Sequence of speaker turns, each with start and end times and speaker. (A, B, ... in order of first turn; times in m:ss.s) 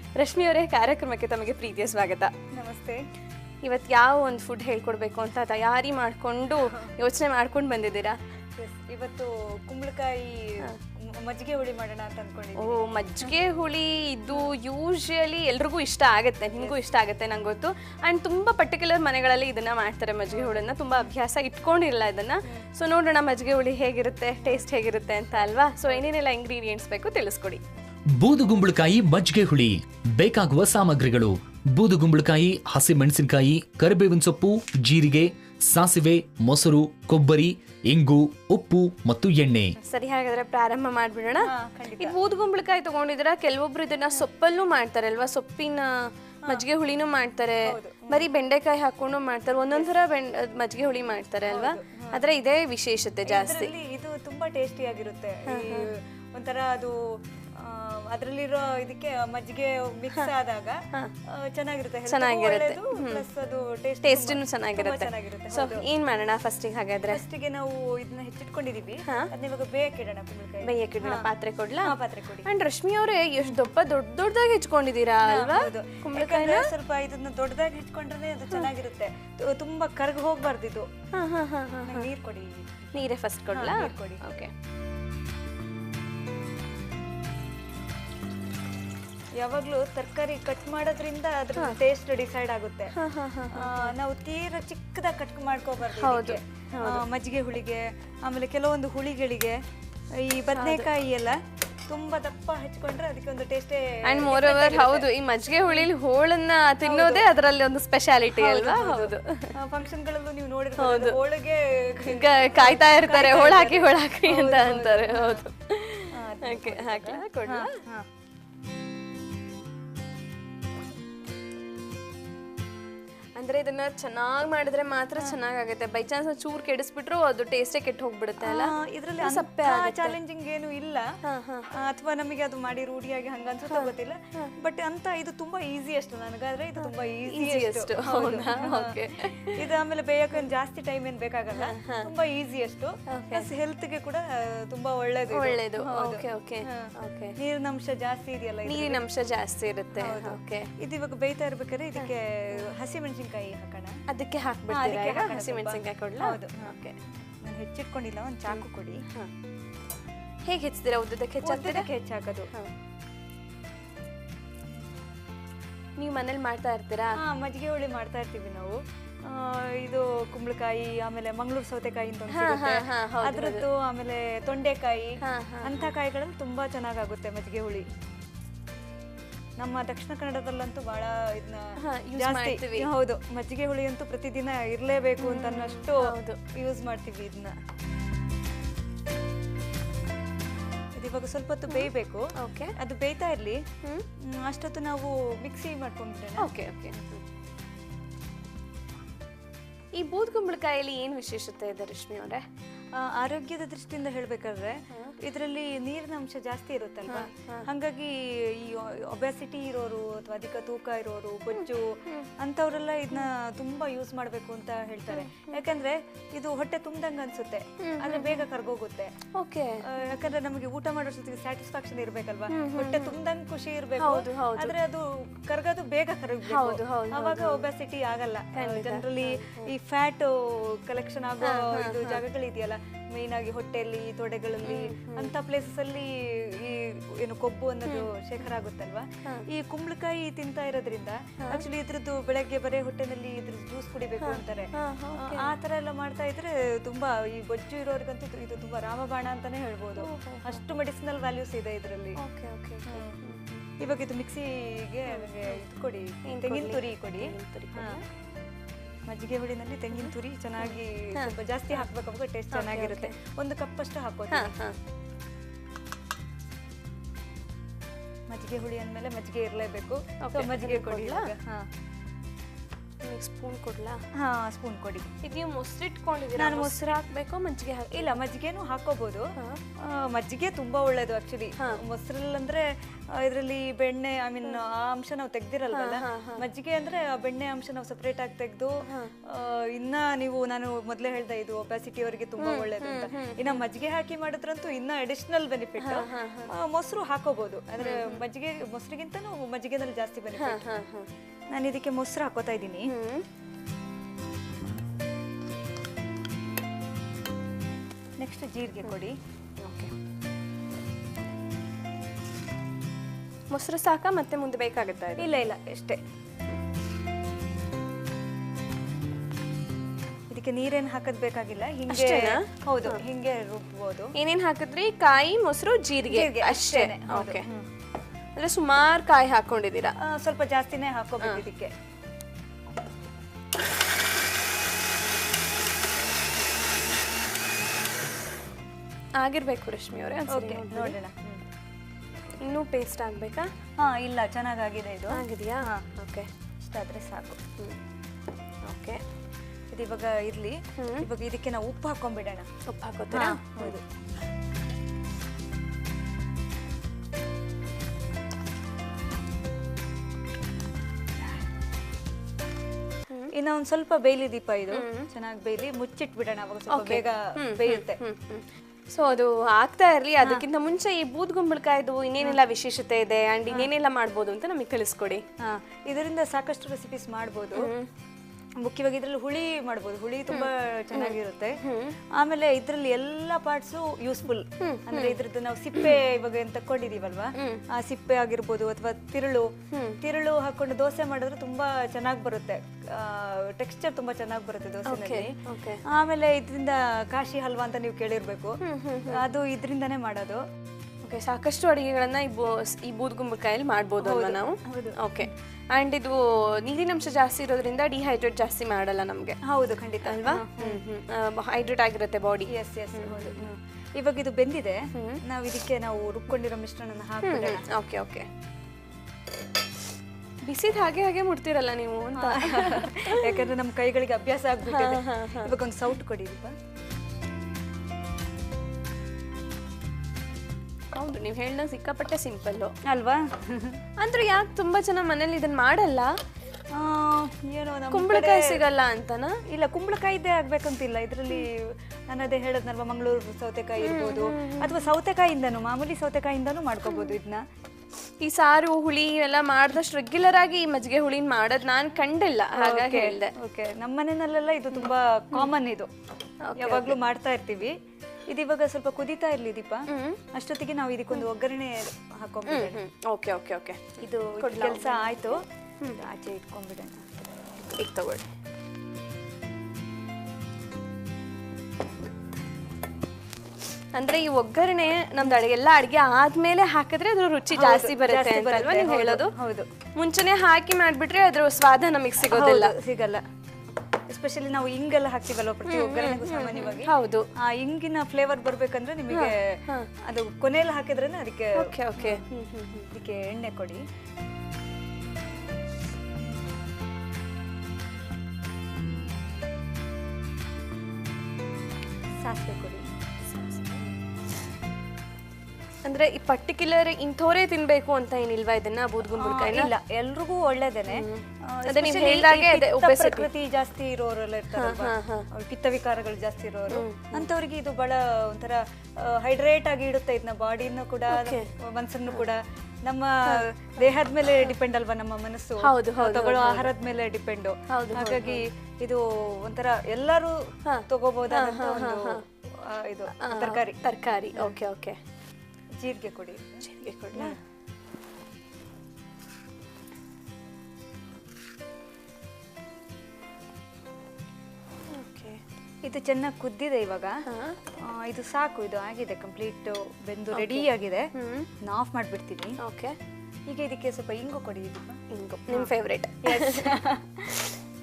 0:00.2-0:02.3 A
0:02.5-0:03.0 B
0:03.6-0:08.2 A
0:08.6-0:13.3 B
0:12.6-0:27.6 A
0:20.3-0:20.6 B
0:28.2-0:39.8 C
0:39.8-0:53.7 A
0:41.4-0:42.2 B
0:47.6-0:48.3 B
0:51.5-0:52.2 B
0:53.2-1:05.9 B
0:55.4-0:55.9 A
1:02.1-1:03.2 A
1:04.0-1:07.2 A
1:07.1-1:11.3 B
1:09.0-1:09.3 A
1:10.6-1:16.7 A
1:11.8-1:12.5 B
1:15.2-1:20.9 B
1:21.1-1:22.1 A
1:21.8-1:22.9 B
1:22.9-1:24.5 A
1:23.5-1:24.3 B
1:29.4-1:32.9 B
1:32.9-1:33.9 A
1:33.5-1:39.6 B
1:35.9-1:37.0 A
1:40.1-1:45.9 B
1:40.6-1:40.9 A
1:44.0-1:49.6 A
1:46.8-1:47.3 B
1:48.4-1:55.4 B
1:50.8-1:51.2 A
1:52.0-1:57.8 A
1:56.1-1:58.1 B
2:03.4-2:10.2 A
2:08.4-2:11.2 B
2:11.2-2:11.7 A
2:11.7-2:29.0 B
2:13.7-2:14.5 A
2:16.8-2:19.7 A
2:21.5-2:22.1 A
2:23.1-2:23.5 A
2:25.3-2:27.4 A
2:28.7-2:30.7 A
2:29.9-2:34.0 B
2:32.0-2:32.7 A
2:34.1-2:37.0 A
2:34.7-2:36.7 B
2:37.4-2:39.0 B
2:38.5-2:39.3 A
2:40.4-2:41.9 A
2:41.4-2:42.5 B
2:46.0-2:47.2 A
2:47.2-2:57.9 B
2:52.3-2:53.7 A
2:55.2-2:55.9 A
2:59.6-3:07.6 B
3:01.8-3:02.9 A
3:05.2-3:06.4 A
3:10.9-3:13.6 B
3:11.7-3:12.8 A
3:14.2-3:17.2 B
3:16.4-3:17.0 A
3:19.9-3:22.4 A
3:22.9-3:39.2 B
3:24.9-3:25.2 A
3:27.1-3:27.7 A
3:31.5-3:32.3 A
3:35.1-3:35.6 A
3:37.8-3:38.4 A
3:39.3-3:40.1 A
3:39.8-4:12.2 B
3:42.5-3:43.2 A
3:44.0-3:44.8 A
3:46.4-3:47.6 A
3:48.6-3:49.7 A
3:51.4-3:52.2 A
3:54.6-3:55.3 A
3:57.9-3:58.1 A
4:04.2-4:05.5 A
4:10.0-4:10.6 A
4:12.2-4:13.7 A
4:12.9-4:13.2 B
4:13.8-4:18.0 B
4:15.1-4:15.6 A
4:16.2-4:18.0 A
4:19.1-4:24.5 B
4:20.6-4:21.9 A
4:22.5-4:23.2 A
4:24.3-4:24.8 A
4:28.3-4:31.7 B
4:30.2-4:31.3 A
4:33.0-4:34.0 A
4:34.1-4:35.1 B
4:35.2-4:38.2 A
4:36.3-4:37.0 B
4:37.9-5:00.6 B
4:39.4-4:39.6 A
4:45.7-4:46.4 A
4:48.8-4:49.1 A
4:52.4-4:53.6 A
4:55.8-4:56.5 A
4:57.8-4:58.2 A
5:00.4-5:01.1 A
5:01.5-5:02.9 B
5:02.9-5:03.2 A
5:08.2-5:09.2 B
5:09.6-5:09.9 A
5:13.5-5:15.3 A
5:15.2-5:16.0 B
5:20.3-5:24.1 B
5:21.9-5:23.0 A
5:24.2-5:27.5 A
5:26.0-5:27.7 B
5:28.4-5:30.0 A
5:30.0-5:31.7 B
5:39.2-5:41.0 A
5:40.3-5:41.4 B
5:42.4-5:43.5 A
5:43.8-5:45.8 B
5:45.1-5:46.3 A
5:46.6-5:47.4 B
5:48.6-5:49.0 A
5:49.7-5:52.5 B
5:50.8-5:51.1 A
5:52.6-5:53.8 A
5:53.1-5:53.8 B
6:03.3-6:08.0 B
6:04.7-6:05.1 A
6:06.7-6:15.2 A
6:15.4-6:17.7 B
6:17.6-6:17.9 A
6:18.6-6:21.6 B
6:20.3-6:22.0 A
6:22.1-6:40.5 B
6:24.6-6:25.2 A
6:27.4-6:27.6 A
6:29.7-6:30.0 A
6:34.9-6:35.8 A
6:38.6-6:39.2 A
6:41.0-6:49.4 A
6:44.0-6:45.3 B
6:49.4-6:50.8 B
6:50.0-6:53.5 A
6:52.5-6:57.7 B
6:54.9-6:55.2 A
6:57.2-6:58.3 A
7:00.4-7:03.5 A
7:02.2-7:06.6 B
7:04.7-7:05.6 A
7:10.9-7:12.7 A
7:12.8-7:13.8 B
7:14.0-7:16.2 A
7:16.7-7:18.6 B
7:17.9-7:19.4 A
7:19.5-7:27.4 B
7:23.8-7:24.9 A
7:28.2-7:33.3 A
7:32.6-7:35.9 B
7:34.7-7:35.5 A
7:36.4-7:37.0 A
7:36.6-7:37.8 B
7:38.3-7:42.8 B
7:39.9-7:40.2 A
7:42.5-7:46.0 A
7:44.0-7:45.4 B
7:46.0-7:47.4 B
7:47.6-7:48.3 A
7:53.9-7:59.3 A
7:57.5-7:59.7 B
8:00.0-8:02.7 A
8:02.3-8:03.2 B
8:04.1-8:12.3 B
8:05.7-8:07.3 A
8:09.1-8:09.9 A
8:11.6-8:12.9 A
8:12.9-8:13.8 B
8:22.2-8:22.9 B
8:25.8-8:29.7 A
8:29.2-8:53.8 B
8:30.9-8:33.3 A
8:34.5-8:35.3 A
8:36.7-8:37.3 A
8:41.1-8:41.5 A
8:45.6-8:46.7 A
8:47.7-8:48.4 A
8:50.6-8:52.2 A
8:53.2-8:55.0 A
8:55.8-8:57.4 B
8:56.6-8:57.4 A
9:04.9-9:05.4 A
9:05.8-9:07.2 B
9:07.2-9:07.6 A
9:07.8-9:11.1 B
9:10.3-9:11.5 A
9:11.6-9:12.6 B
9:12.6-9:13.0 A
9:13.5-9:15.7 B
9:15.1-9:17.6 A
9:16.2-9:17.3 B